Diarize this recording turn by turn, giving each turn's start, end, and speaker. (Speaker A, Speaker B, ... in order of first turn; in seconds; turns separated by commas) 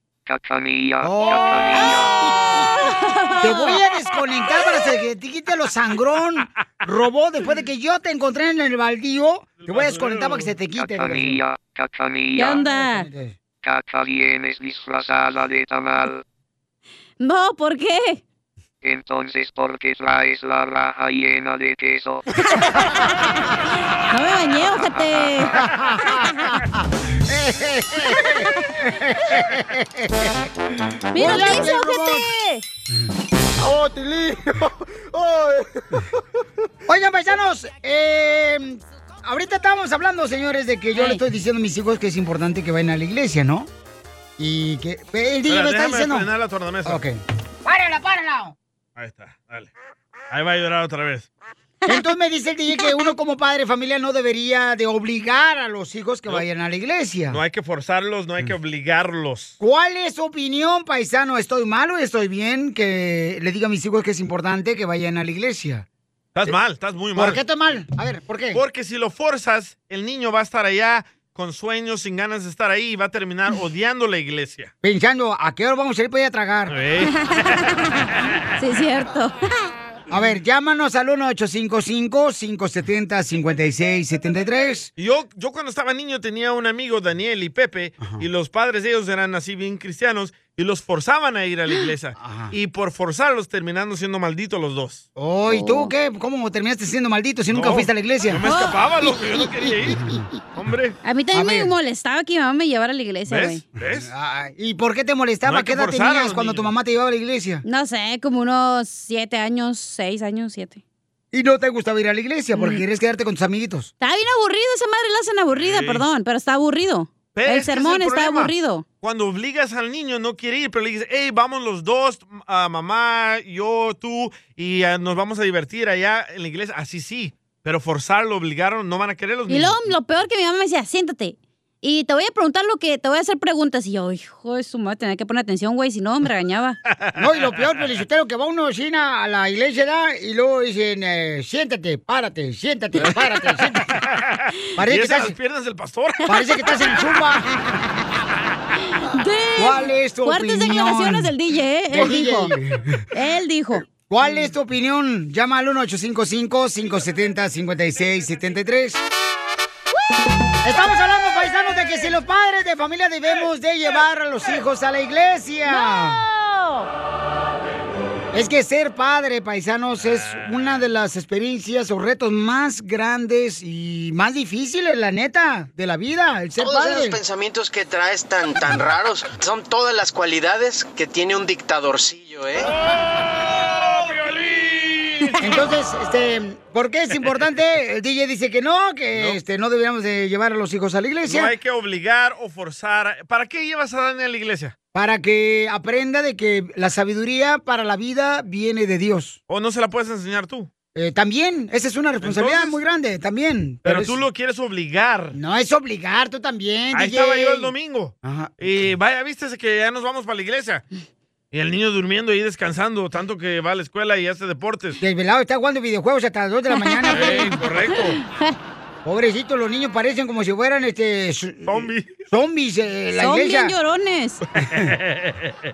Speaker A: 0.3-2.4, Speaker B: 1.0-2.1, Speaker C: 1.4-3.8, Speaker B: 3.4-11.4, Speaker D: 9.6-10.6, Speaker A: 10.8-12.6, Speaker C: 12.4-13.1, Speaker B: 12.5-13.4, Speaker A: 13.6-16.2, Speaker C: 17.2-18.2, Speaker A: 18.8-22.3, Speaker C: 22.6-23.0, Speaker C: 24.1-25.7, Speaker B: 25.5-30.4, Speaker C: 31.1-32.6, Speaker B: 31.1-32.3, Speaker B: 36.9-43.7, Speaker C: 41.0-41.2, Speaker B: 44.4-46.3, Speaker D: 45.5-47.0, Speaker B: 46.9-48.5, Speaker D: 49.0-49.7, Speaker D: 50.3-51.3, Speaker B: 51.9-57.4, Speaker D: 57.3-59.6, Speaker B: 59.6-65.9, Speaker D: 66.3-67.4, Speaker B: 67.2-68.6, Speaker D: 68.5-74.7, Speaker B: 74.8-76.8, Speaker D: 76.7-77.1, Speaker C: 77.2-79.5, Speaker B: 80.1-84.9, Speaker D: 85.0-95.1, Speaker B: 92.2-92.5, Speaker B: 95.2-98.5, Speaker C: 95.5-95.9, Speaker D: 97.5-101.0, Speaker C: 98.5-98.8, Speaker B: 99.8-100.3, Speaker C: 101.0-103.6, Speaker B: 101.3-101.7, Speaker D: 103.3-104.1, Speaker B: 103.9-107.6, Speaker D: 105.5-106.7, Speaker C: 107.7-110.8, Speaker B: 111.3-113.9, Speaker C: 112.5-112.8, Speaker C: 114.0-118.8, Speaker D: 115.5-116.0, Speaker D: 117.3-129.9, Speaker C: 129.5-136.8, Speaker B: 137.2-143.9, Speaker D: 144.0-146.3, Speaker B: 144.8-145.3, Speaker B: 146.3-147.5, Speaker C: 148.8-152.5, Speaker B: 149.6-151.3, Speaker B: 151.9-153.1, Speaker C: 153.1-153.8, Speaker B: 153.9-159.0, Speaker B: 160.6-166.2, Speaker C: 165.7-166.9, Speaker B: 168.3-177.2, Speaker D: 170.0-170.7, Speaker E: 176.6-182.7, Speaker D: 182.9-185.3, Speaker B: 185.4-191.5, Speaker D: 191.3-194.7, Speaker B: 194.9-199.4, Speaker D: 199.5-200.7, Speaker B: 200.9-204.2, Speaker D: 202.2-202.8, Speaker D: 203.8-205.4, Speaker B: 205.3-207.7, Speaker D: 206.9-210.8, Speaker B: 208.2-208.6, Speaker D: 211.5-215.0, Speaker B: 215.0-217.6, Speaker C: 216.7-217.5, Speaker D: 217.1-218.2, Speaker C: 218.2-218.6, Speaker B: 219.1-223.8, Speaker D: 221.7-222.2, Speaker C: 223.1-224.4, Speaker B: 224.6-224.9, Speaker D: 224.7-225.6